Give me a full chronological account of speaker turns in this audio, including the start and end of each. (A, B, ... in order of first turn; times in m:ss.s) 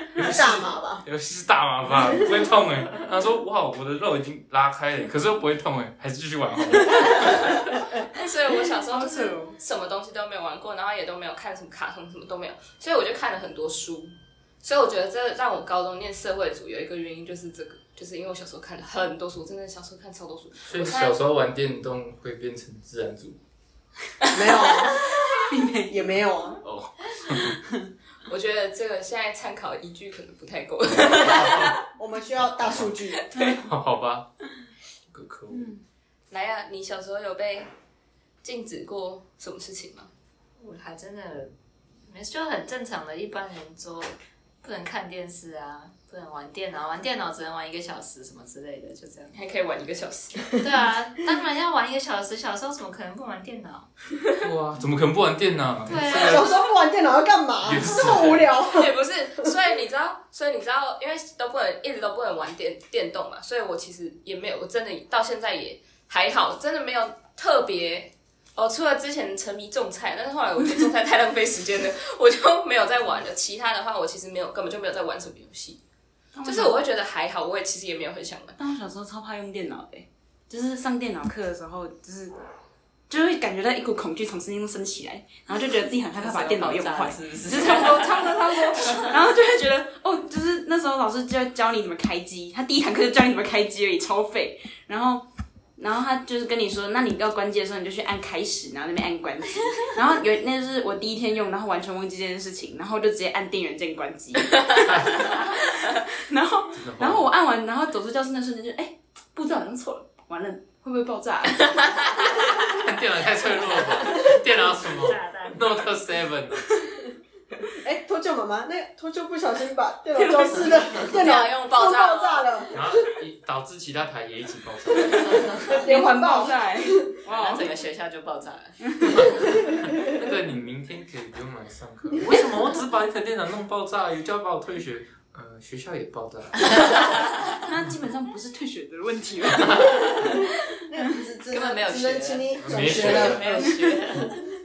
0:00.1-0:07.4 A
0:00.2-0:01.0 B
0:07.1-0:21.2 C
0:08.9-0:09.6 D
0:20.6-0:23.4 A
0:24.3-0:25.1 B
0:24.4-0:25.0 C
0:25.4-0:26.0 D
0:25.9-0:26.6 B
0:26.6-0:27.6 A
0:27.4-0:27.9 D
0:28.3-0:31.8 C
0:31.1-0:31.7 A
0:31.8-0:33.2 B
0:32.6-0:32.9 A
0:33.1-0:33.6 C
0:33.3-0:33.7 D
0:33.6-0:34.3 A
0:35.1-0:35.7 A
0:35.5-0:35.8 D
0:36.3-0:37.7 C
0:38.4-0:40.1 C
0:40.6-0:41.5 E
0:42.0-0:49.3 E
0:49.3-0:50.4 C
0:50.5-0:53.9 E
0:54.4-0:56.5 A
0:55.9-0:56.5 E
0:56.0-0:59.5 B
0:57.6-0:58.5 A
0:58.6-1:15.8 C
1:16.3-1:16.8 D
1:16.4-1:18.6 C
1:18.6-1:22.3 D
1:23.1-1:35.2 D
1:26.2-1:29.1 E
1:35.8-1:52.7 D
1:44.8-1:45.4 A
1:46.7-1:47.3 A
1:52.6-1:56.8 A
1:54.0-1:55.9 E
1:57.7-2:02.9 B
2:00.1-2:01.1 D
2:01.1-2:02.5 C
2:02.7-2:05.4 A
2:05.0-2:05.9 E
2:05.1-2:07.7 D
2:05.7-2:07.1 B
2:07.2-2:09.7 E
2:08.8-2:09.2 D
2:09.1-2:17.1 A
2:17.5-2:20.5 D
2:19.5-2:20.0 A
2:20.2-2:24.3 B
2:21.5-2:24.4 E
2:22.6-2:23.6 A